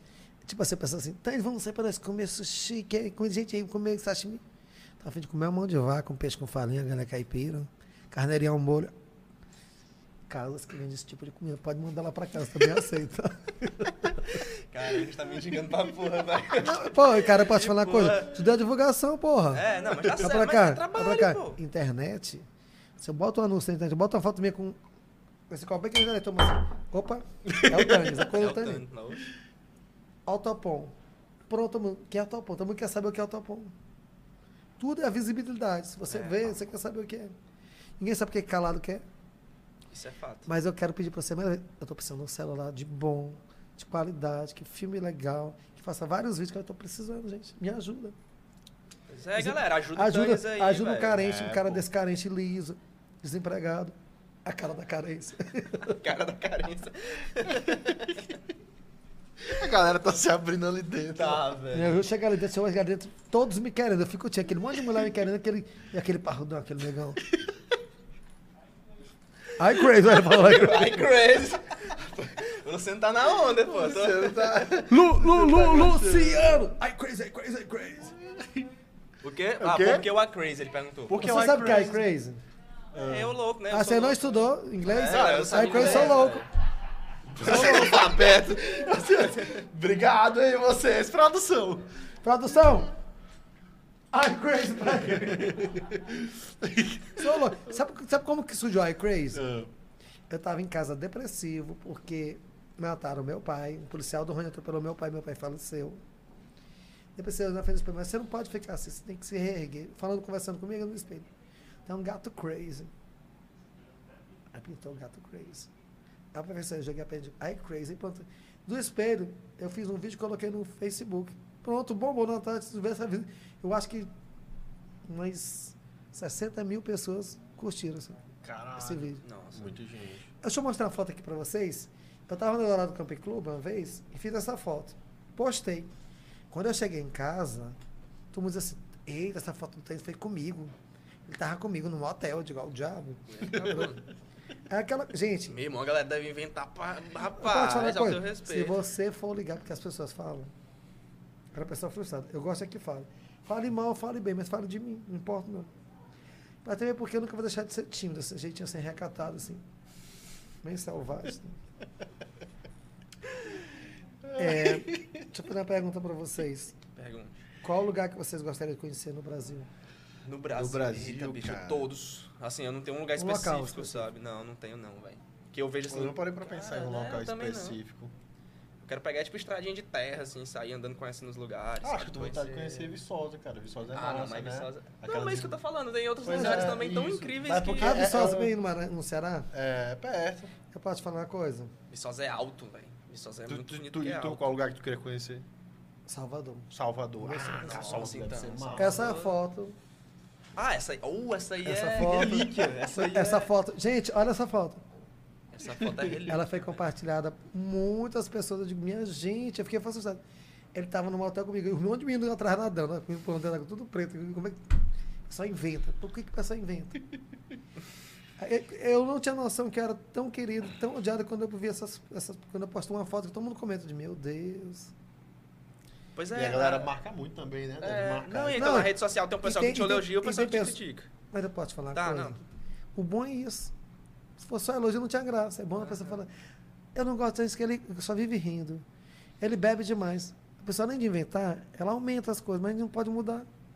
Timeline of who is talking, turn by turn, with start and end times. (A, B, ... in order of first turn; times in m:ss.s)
0:00.4-0:04.4 A
0:05.0-0:08.9 A
0:10.3-0:14.4 A
0:14.3-0:18.4 B
0:16.5-0:22.5 A
0:19.5-0:21.6 B
0:23.0-0:24.8 A
0:25.5-0:28.8 A
0:27.5-0:28.1 C
0:28.3-0:29.3 B
0:30.2-0:30.9 A
0:31.5-0:33.7 A
0:34.8-0:37.3 A
0:36.1-0:36.4 B
0:38.0-0:39.0 A
0:39.9-0:40.5 B
0:40.4-0:48.1 A
0:49.1-0:51.2 B
0:49.4-0:56.0 A
0:51.2-0:51.8 C
0:56.0-0:58.3 B
0:59.4-1:01.4 C
1:01.1-1:02.0 B
1:01.7-1:07.2 A
1:09.6-1:11.2 A
1:10.1-1:14.7 B
1:13.6-1:16.7 C
1:14.9-1:18.1 A
1:18.2-1:18.7 C
1:19.2-1:21.2 B
1:19.6-1:20.1 C
1:21.1-1:22.0 C
1:21.2-1:22.4 A
1:22.9-1:23.4 C
1:23.0-1:26.5 B
1:23.7-1:26.4 A
1:25.0-1:26.3 C
1:27.4-1:31.9 C
1:27.4-1:29.6 B
1:27.4-1:28.1 A
1:32.2-1:32.9 A
1:34.1-1:35.8 A
1:35.2-1:37.4 C
1:37.2-1:39.4 A
1:39.3-1:39.7 C
1:40.3-1:46.0 A
1:47.2-1:51.3 A
1:51.8-1:52.9 A
1:54.5-1:55.7 A
1:56.3-2:04.1 A
2:05.0-2:08.2 A
2:08.4-2:10.3 C
2:08.8-2:09.2 A
2:09.2-2:09.7 B
2:10.4-2:15.9 A
2:16.5-2:17.8 A
2:18.3-2:20.7 A
2:21.2-2:23.9 A
2:23.3-2:24.0 B
2:24.7-2:25.6 A
2:25.5-2:28.8 B
2:27.2-2:30.5 A
2:31.5-2:35.7 A
2:36.6-2:39.6 A
2:40.6-2:41.6 A
2:44.2-2:45.3 C
2:44.4-2:46.8 A
2:46.9-2:47.4 B
2:47.6-2:49.7 A
2:50.2-2:57.8 B
2:50.5-2:51.9 C
2:53.2-2:54.1 A
2:55.9-2:58.1 C
2:58.8-3:03.0 B
3:01.8-3:05.6 C
3:03.9-3:08.2 B
3:06.2-3:08.5 C
3:06.2-3:06.8 A
3:07.8-3:09.5 A
3:09.5-3:10.5 C
3:10.7-3:11.7 A
3:11.9-3:14.5 B
3:13.5-3:15.4 C
3:16.0-3:18.1 A
3:16.7-3:19.1 C
3:17.6-3:19.3 B
3:18.8-3:19.8 A
3:20.6-3:23.5 B
3:21.6-3:24.8 A
3:22.0-3:22.7 C
3:25.5-3:26.8 B
3:25.8-3:26.1 C
3:26.2-3:30.2 A
3:30.7-3:37.0 A
3:38.4-3:44.9 A
3:46.2-3:46.9 B
3:46.3-3:48.8 C
3:47.8-3:51.1 B
3:48.5-3:50.8 A
3:51.3-3:52.4 A
3:51.9-3:52.4 B
3:52.9-3:53.7 A
3:54.4-3:56.3 A
3:55.8-3:56.1 B
3:56.9-3:58.8 A
3:59.4-4:03.5 A